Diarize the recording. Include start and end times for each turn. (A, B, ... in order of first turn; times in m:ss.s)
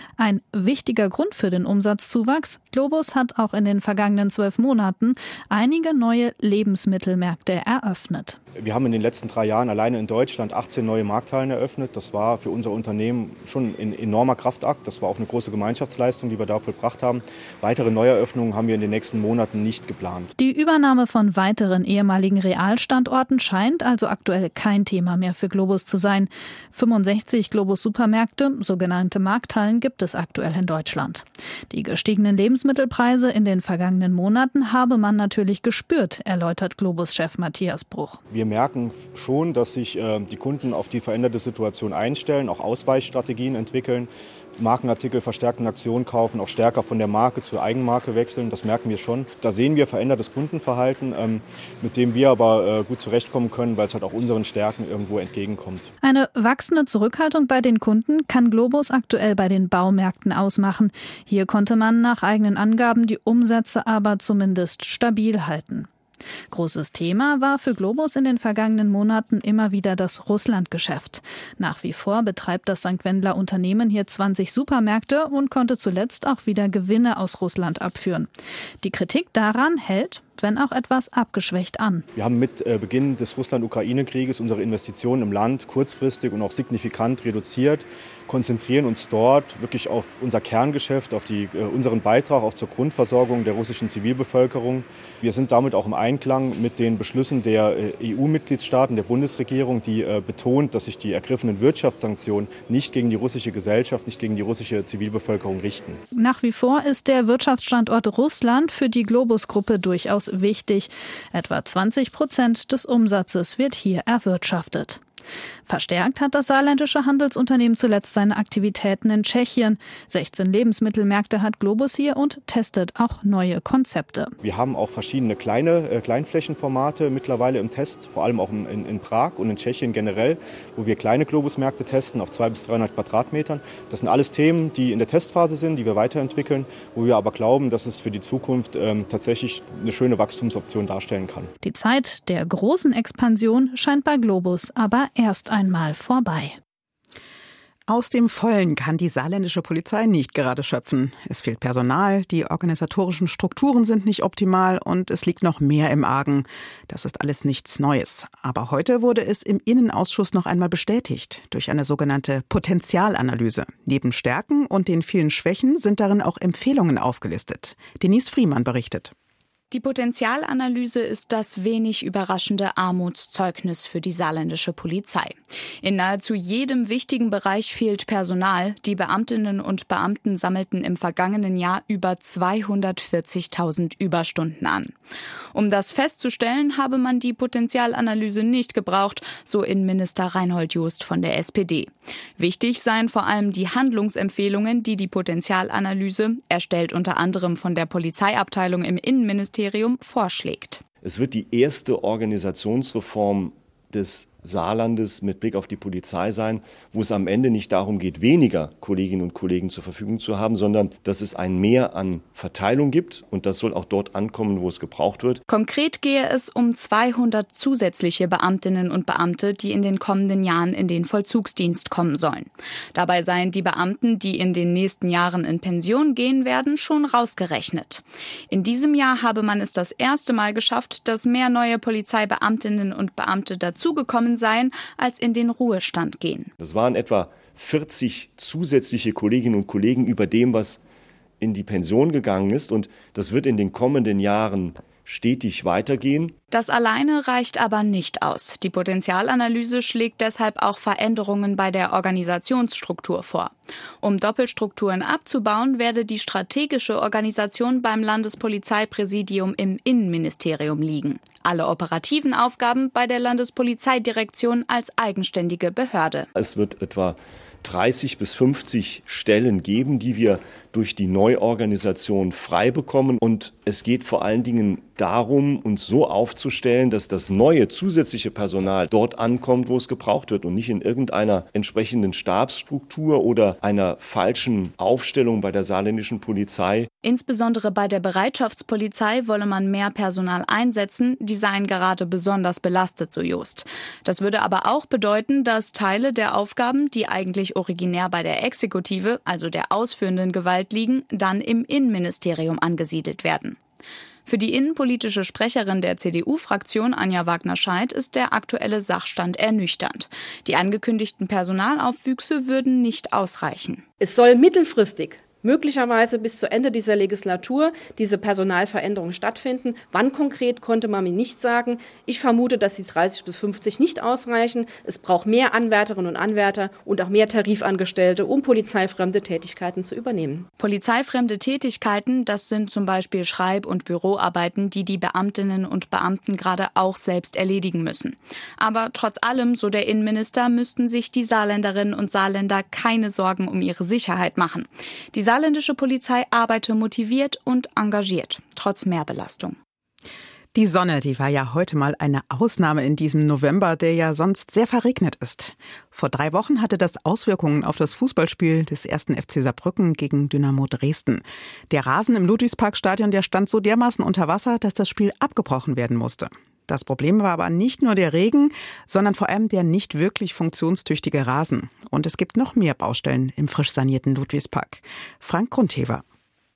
0:00.2-0:08.4 A
0:08.5-0:20.3 B
0:20.4-0:38.2 A
0:38.3-0:55.9 B
0:56.0-1:05.9 A
1:06.5-1:18.3 A
1:18.8-1:22.0 A
1:22.1-1:46.0 B
1:46.1-1:55.0 A
1:55.6-2:04.3 A
2:04.4-2:21.5 B
2:21.6-2:26.6 A
2:27.9-2:49.1 C
2:49.7-3:04.9 D
3:05.5-3:20.8 D
3:21.0-3:35.4 E
3:35.5-3:56.5 D
3:56.6-4:00.8 E
4:01.4-4:06.3 E
4:06.5-4:26.3 D
4:26.3-4:46.9 E
4:47.0-5:03.6 D
5:04.3-5:13.8 D
5:14.0-5:30.5 F
5:30.6-5:49.6 D
5:50.5-6:16.0 C